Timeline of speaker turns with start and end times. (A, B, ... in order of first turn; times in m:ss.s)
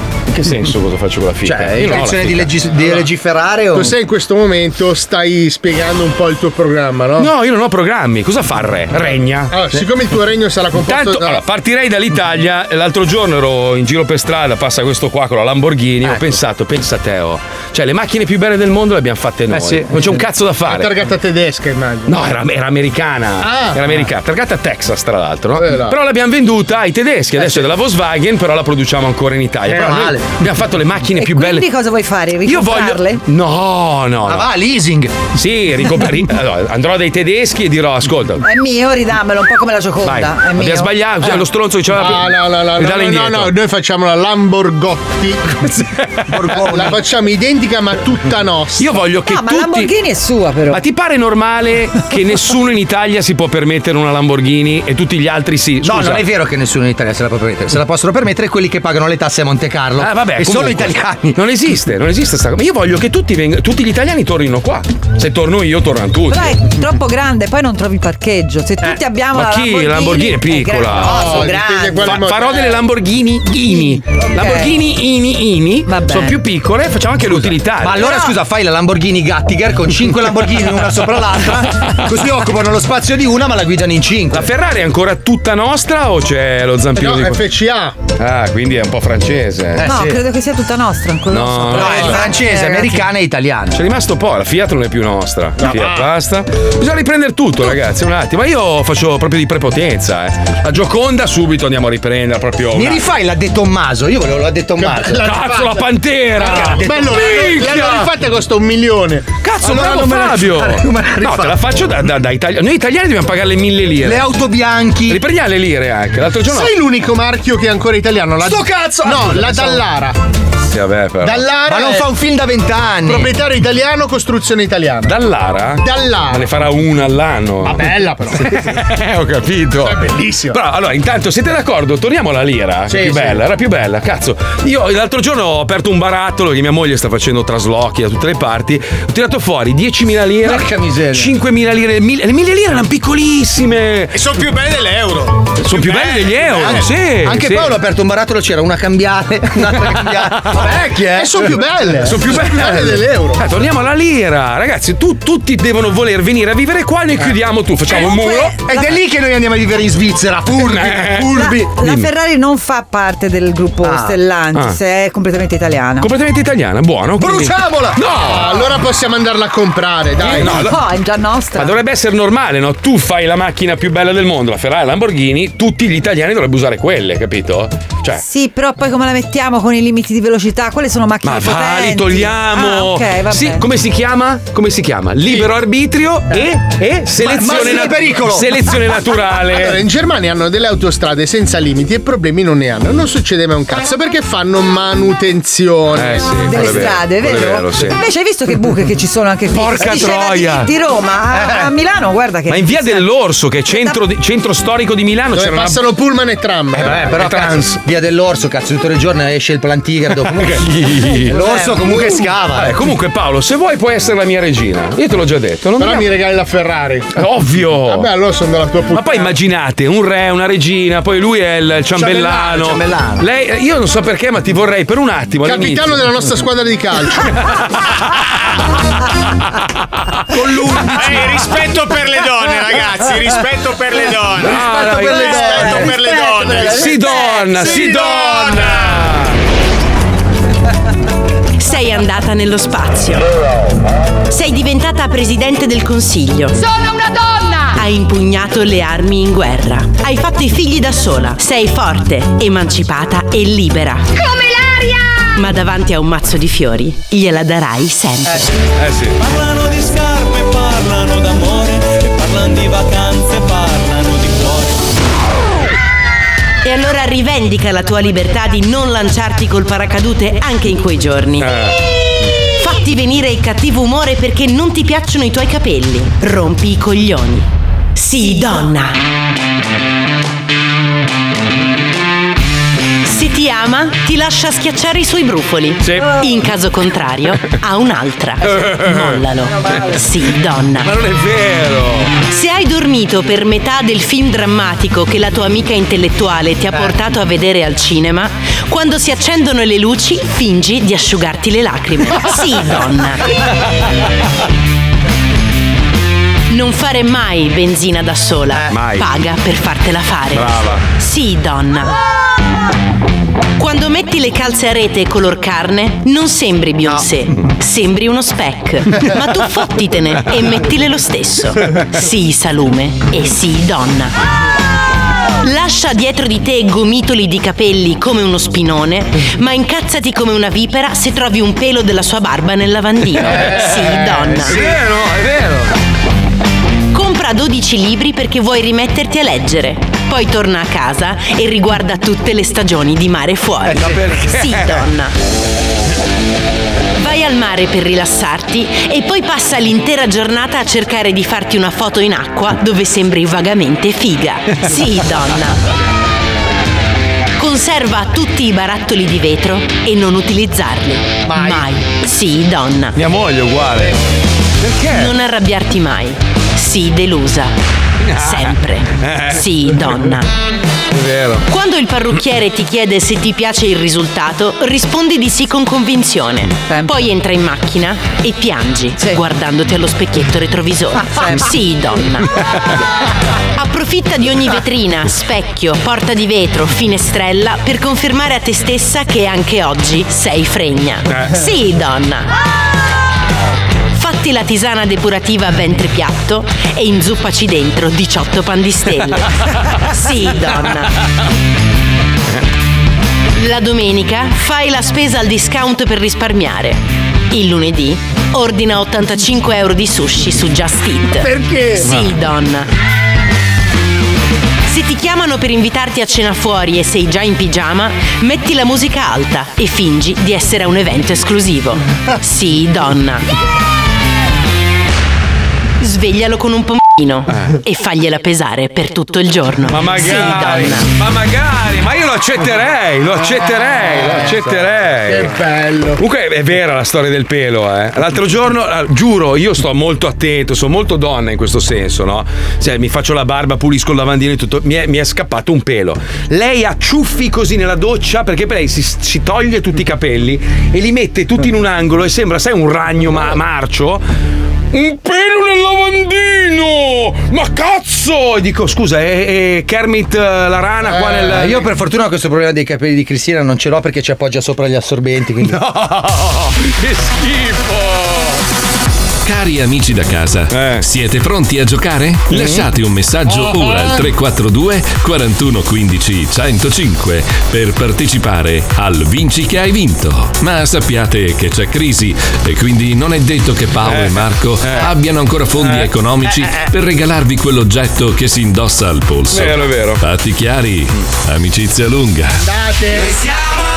0:00.3-0:03.1 A
0:01.4-0:03.9 B
0:03.7-0:07.3 C
0:07.2-0:09.6 A
0:09.5-0:11.4 C
0:10.8-0:20.9 A
0:19.5-0:19.9 B
0:20.7-0:22.2 C
0:22.1-0:31.7 A
0:23.4-0:23.8 C
0:25.6-0:26.0 C
0:27.4-0:27.7 B
0:29.6-0:30.4 B
0:31.2-0:33.2 D
0:32.4-0:34.5 A
0:34.3-0:35.3 B
0:35.3-0:38.4 A
0:38.4-0:41.3 D
0:40.0-0:43.6 A
0:41.9-0:45.8 C
0:46.2-0:46.6 A
0:46.3-0:47.0 B
0:46.6-0:48.9 C
0:48.8-0:49.9 A
0:49.3-0:50.8 D
0:50.7-0:56.2 A
0:55.8-1:01.4 B
1:00.0-1:06.6 A
1:06.3-1:12.2 D
1:09.3-1:11.5 A
1:11.0-1:12.8 C
1:12.0-1:18.1 A
1:13.6-1:14.7 D
1:15.9-1:16.4 D
1:17.8-1:24.5 B
1:18.0-1:18.3 D
1:24.3-1:27.4 A
1:27.0-1:28.0 C
1:28.2-1:29.9 A
1:29.8-1:30.2 B
1:29.8-1:33.0 D
1:31.3-1:32.3 A
1:31.7-1:33.8 B
1:33.7-1:43.0 A
1:35.6-1:36.0 C
1:42.7-1:45.2 B
1:44.8-1:49.3 C
1:45.2-1:48.1 A
1:46.5-1:47.5 B
1:49.4-1:54.3 A
1:49.6-1:51.6 B
1:54.0-1:55.2 B
1:55.1-1:56.7 A
1:56.5-2:00.2 C
1:58.4-1:59.8 B
2:00.7-2:01.5 A
2:01.2-2:03.3 B
2:01.3-2:02.1 C
2:03.0-2:05.1 C
2:05.0-2:07.9 A
2:05.8-2:06.5 C
2:07.6-2:08.6 C
2:08.4-2:24.2 A
2:09.8-2:10.6 C
2:12.9-2:13.4 B
2:20.4-2:21.3 B
2:24.1-2:26.7 E
2:25.6-2:27.7 A
2:26.6-2:31.5 B
2:30.3-2:30.6 A
2:31.1-2:33.4 C
2:32.0-2:38.6 A
2:37.9-2:39.0 D
2:38.6-2:41.7 B
2:40.5-2:42.1 A
2:41.3-2:46.1 D
2:43.8-2:44.2 B
2:46.0-2:48.7 A
2:47.2-2:48.0 B
2:48.2-2:50.7 C
2:50.2-2:51.8 D
2:50.2-2:50.8 A
2:51.6-2:58.2 A
2:58.2-3:03.6 D
3:01.2-3:09.8 A
3:07.2-3:08.5 B
3:09.5-3:16.9 C
3:16.0-3:18.0 A
3:16.5-3:23.1 D
3:19.5-3:20.7 A
3:21.3-3:21.7 B
3:22.5-3:25.8 A
3:23.7-3:24.0 D
3:25.3-3:27.0 C
3:26.7-3:30.7 B
3:26.8-3:27.8 A
3:30.2-3:31.4 A
3:31.2-3:32.8 B
3:31.3-3:32.1 D
3:32.6-3:36.1 A
3:35.8-3:37.2 C
3:37.1-3:38.1 A
3:37.9-3:39.3 C
3:38.9-3:46.1 A
3:42.0-3:43.2 B
3:45.4-3:47.6 C
3:50.3-3:51.3 A
3:50.3-3:51.4 B
3:51.0-3:57.0 E
3:54.4-3:55.9 A
3:54.4-3:56.2 B
3:55.4-3:57.6 D
3:56.6-3:59.4 A
3:57.8-3:58.8 E
4:01.6-4:03.3 F
4:04.3-4:06.6 F
4:06.7-4:07.6 D
4:07.7-4:14.2 F
4:15.3-4:18.5 F
4:18.8-4:19.2 A
4:19.2-4:24.9 G
4:26.6-4:31.7 F
4:31.4-4:31.8 A
4:32.6-4:39.0 F
4:43.0-4:51.0 F
4:45.8-4:46.3 A
4:48.4-4:49.9 A
4:49.5-4:50.0 D
4:50.8-4:52.1 A
4:52.3-5:03.3 F
5:06.5-5:12.0 F
5:08.7-5:09.1 A
5:10.3-5:10.8 A
5:13.6-5:24.1 F
5:25.4-5:34.7 F
5:33.3-5:35.7 A
5:36.9-5:45.1 F
5:43.7-5:44.9 A
5:47.0-5:55.6 F
5:57.4-6:03.0 F
6:03.0-6:04.0 A
6:04.6-6:05.1 A
6:04.9-6:07.6 F
6:08.0-6:10.0 A
6:08.1-6:10.3 F
6:10.9-6:11.4 A
6:11.5-6:22.3 F
6:16.7-6:17.0 D
6:21.0-6:21.5 D
6:23.6-6:32.3 F
6:34.0-6:40.9 F
6:43.4-6:52.7 F
6:51.2-6:51.8 C
6:54.7-7:03.3 F
7:05.8-7:10.9 F
7:07.3-7:07.6 A
7:09.7-7:15.4 A
7:13.5-7:16.0 C
7:16.0-7:34.0 A
7:34.7-7:41.7 A
7:41.0-7:45.6 B
7:45.4-7:48.4 A
7:49.2-8:12.4 H
7:50.5-7:50.8 A
7:52.3-7:52.7 A
8:03.8-8:04.9 A
8:05.6-8:05.9 A
8:09.3-8:10.0 A
8:12.3-8:13.2 C